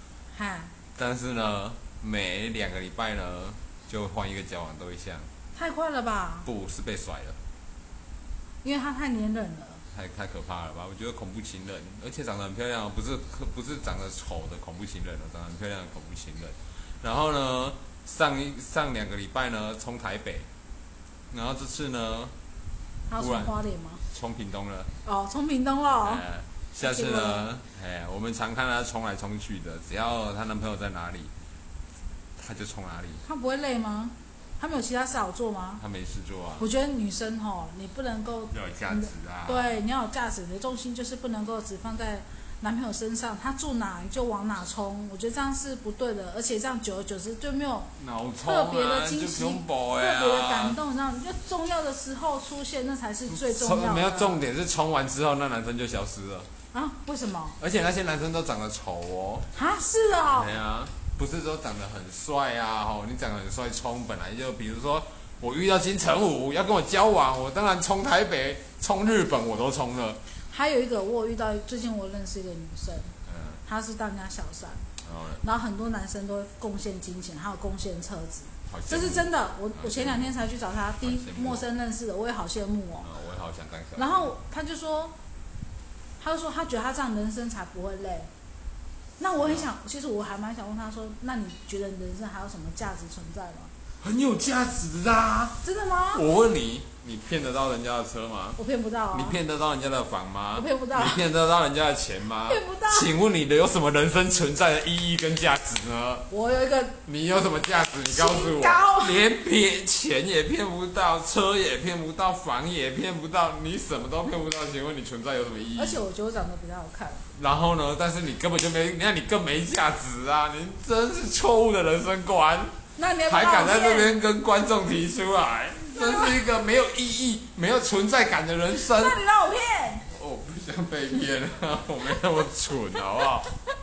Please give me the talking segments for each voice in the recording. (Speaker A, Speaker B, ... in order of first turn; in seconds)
Speaker A: 0.3-0.7, 5.5-6.5, 8.6-9.8, 23.1-24.0, 25.0-26.2, 26.8-27.5, 33.2-35.8, 36.6-47.9, 48.5-54.4, 56.7-57.6, 59.5-60.5, 70.5-74.9, 75.4-83.1, 84.0-85.2, 86.2-88.3, 89.2-93.7, 95.6-96.2, 98.6-99.4, 100.5-101.2, 102.5-103.1, 106.3-107.0, 108.1-109.2, 115.8-117.3, 123.0-124.1, 125.9-126.3, 128.8-130.1
Speaker B: 0.9-5.3, 6.5-7.4, 9.9-20.5, 21.3-22.4, 23.2-23.6, 24.1-24.9, 25.9-31.3, 32.4-33.2, 35.8-36.7, 38.5-39.8, 48.0-50.8, 53.3-56.5, 57.6-59.5, 60.2-70.2, 73.2-73.6, 75.0-75.4, 78.7-80.4, 81.0-81.7, 83.0-84.3, 89.4-89.7, 94.0-95.6, 96.1-98.6, 99.1-106.3, 107.0-116.0, 117.3-129.2, 130.1-133.5